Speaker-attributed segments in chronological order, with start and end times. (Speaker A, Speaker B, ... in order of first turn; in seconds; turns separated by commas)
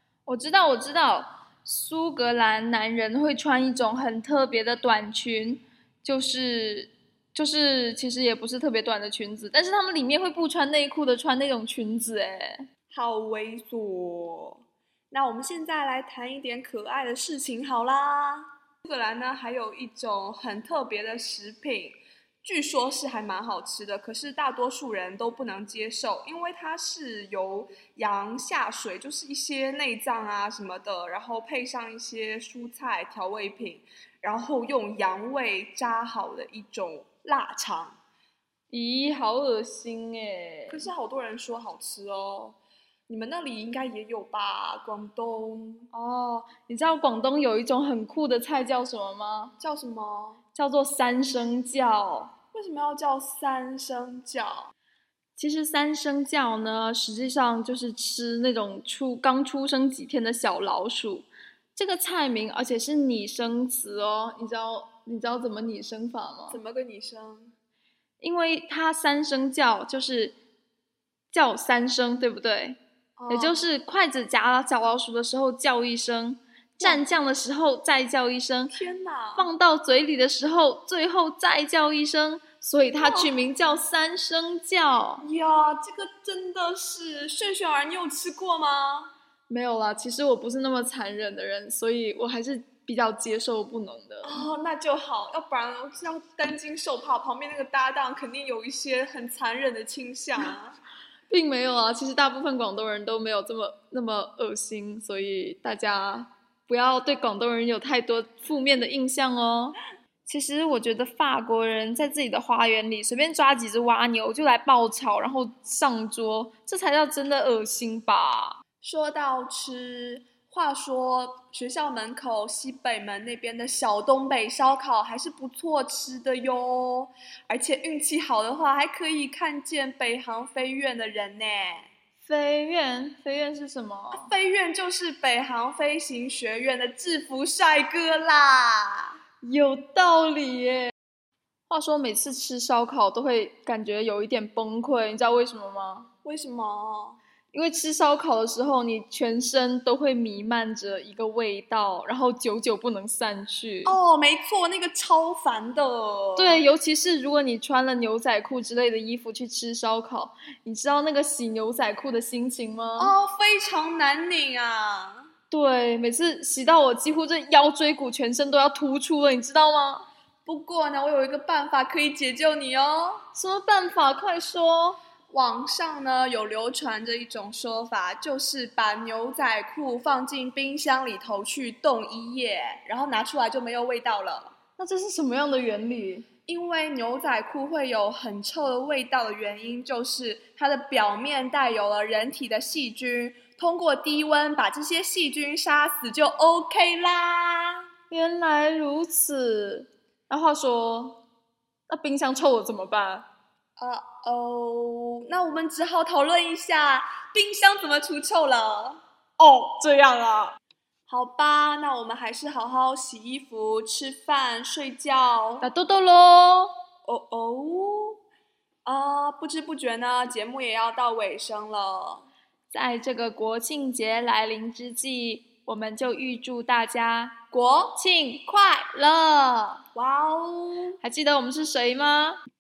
Speaker A: 0.3-12.7, Speaker B: 12.9-38.0, Speaker A: 38.7-40.9, Speaker B: 40.7-42.6, Speaker B: 43.1-45.9, Speaker A: 45.9-49.5, Speaker B: 49.6-50.4, Speaker A: 50.5-52.3, Speaker B: 52.5-54.7, Speaker A: 55.4-66.6, Speaker B: 66.5-67.5, Speaker A: 68.2-70.3, Speaker A: 71.3-72.8, Speaker B: 73.2-73.6, Speaker A: 73.3-78.7, Speaker B: 76.8-77.1, Speaker B: 78.7-79.5, Speaker A: 79.4-85.2, Speaker B: 82.8-83.3, Speaker B: 85.2-89.1, Speaker A: 89.5-94.5, Speaker B: 94.2-100.8, Speaker A: 101.3-118.6, Speaker B: 118.8-131.9, Speaker A: 132.2-134.3, Speaker B: 134.1-139.2, Speaker A: 139.4-140.9, Speaker A: 141.7-146.1, Speaker B: 146.2-147.2, Speaker A: 147.5-154.0, Speaker B: 153.8-156.7, Speaker A: 156.4-163.1, Speaker B: 163.0-165.3, Speaker A: 165.5-170.1, Speaker B: 170.5-173.2, Speaker A: 173.3-175.0, Speaker B: 175.3-184.5, Speaker A: 184.8-186.3, Speaker B: 186.5-197.8, Speaker A: 198.1-201.2, Speaker A: 201.9-203.3, Speaker B: 203.8-209.0, Speaker A: 209.4-210.6, Speaker B: 211.1-215.7, Speaker A: 215.6-216.7, Speaker B: 217.1-218.2, Speaker B: 218.8-222.3, Speaker A: 222.7-227.4, Speaker B: 227.5-228.0, Speaker A: 228.0-229.8, Speaker B: 229.9-231.0, Speaker A: 231.0-232.4